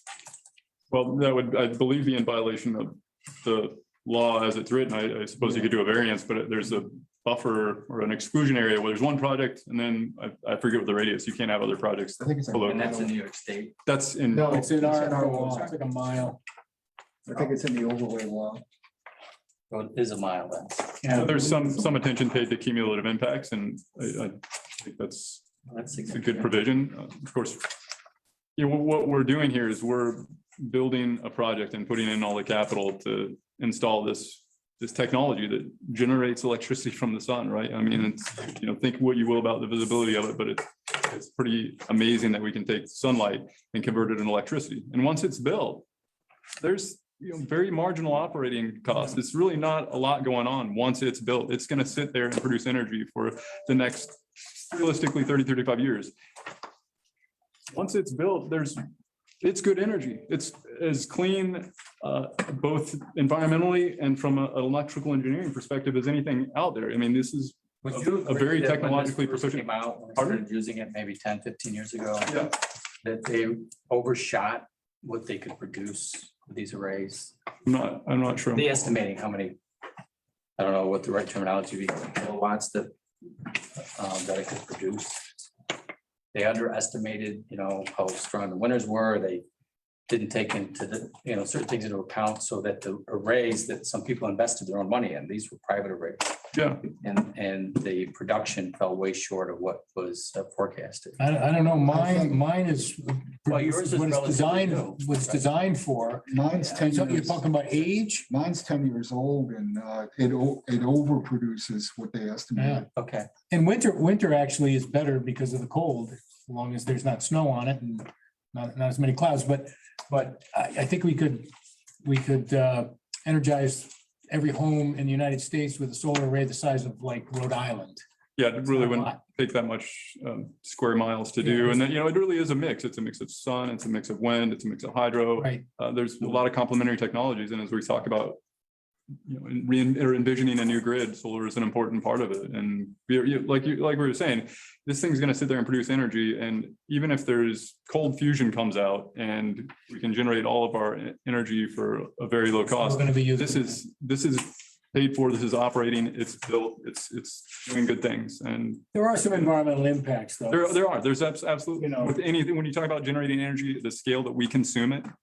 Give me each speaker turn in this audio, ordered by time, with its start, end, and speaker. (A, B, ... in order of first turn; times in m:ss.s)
0:00.9-0:12.9 A
0:12.2-0:13.1 B
0:12.6-0:13.7 C
0:13.9-0:14.6 A
0:14.3-0:15.8 B
0:14.5-0:16.4 D
0:17.3-0:18.6 B
0:19.7-0:21.2 C
0:21.0-0:21.4 D
0:21.1-0:25.5 A
0:25.7-0:26.5 C
0:26.1-0:27.7 A
0:28.6-0:45.9 A
0:46.6-0:56.1 A
0:57.7-0:58.8 A
0:59.4-1:10.4 A
1:07.8-1:17.3 C
1:17.6-1:18.7 A
1:18.5-1:19.6 C
1:20.6-1:25.5 C
1:26.3-1:29.4 C
1:30.1-1:41.2 C
1:36.5-1:36.8 A
1:41.2-1:46.3 D
1:41.9-1:42.4 B
1:43.5-1:45.4 C
1:46.3-1:47.4 B
1:46.8-1:48.2 D
1:48.3-1:52.9 B
1:52.6-1:52.8 D
1:52.9-1:53.3 C
1:53.5-2:08.0 D
2:08.4-2:18.4 A
2:08.6-2:09.2 D
2:11.4-2:11.7 D
2:15.4-2:15.6 D
2:19.2-2:39.5 A
2:32.8-2:33.8 D
2:38.9-2:40.7 D
2:40.5-2:45.1 A
2:41.8-2:42.2 D